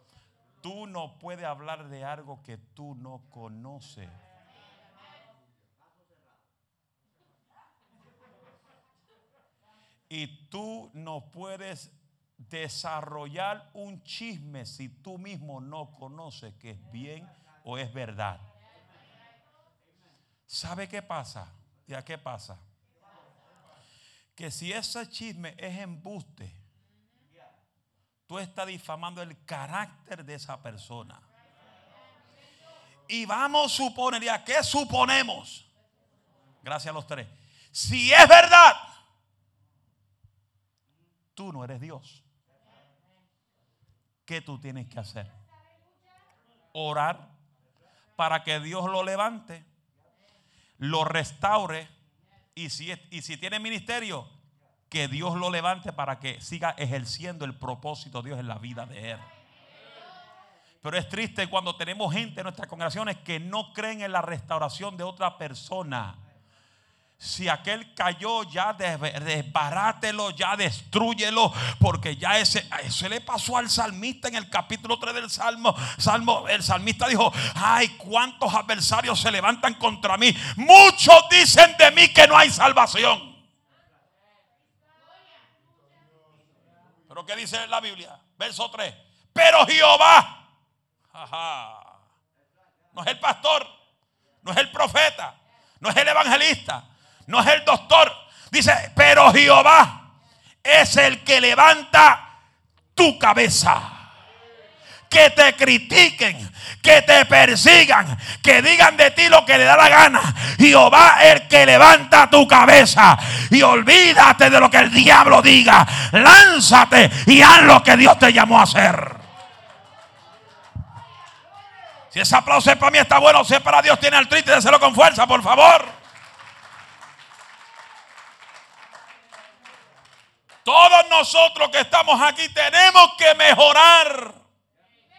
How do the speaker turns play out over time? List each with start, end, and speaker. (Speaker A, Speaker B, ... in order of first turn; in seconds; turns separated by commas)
Speaker A: 0.6-4.2, Speaker A: 10.1-18.5, Speaker A: 20.5-22.6, Speaker A: 24.4-26.6, Speaker A: 28.3-31.3, Speaker A: 33.1-35.7, Speaker A: 36.6-38.8, Speaker A: 41.4-42.2, Speaker A: 44.2-45.4, Speaker A: 46.7-47.3, Speaker A: 48.1-49.7, Speaker A: 50.8-51.9, Speaker A: 52.5-54.3, Speaker A: 54.9-59.3, Speaker A: 60.8-66.2, Speaker A: 67.2-83.4, Speaker A: 87.1-90.4, Speaker A: 91.1-92.0, Speaker A: 92.9-93.7, Speaker A: 94.4-100.1, Speaker A: 100.6-102.3, Speaker A: 103.0-104.1, Speaker A: 105.1-119.2, Speaker A: 122.1-126.0, Speaker A: 130.6-134.4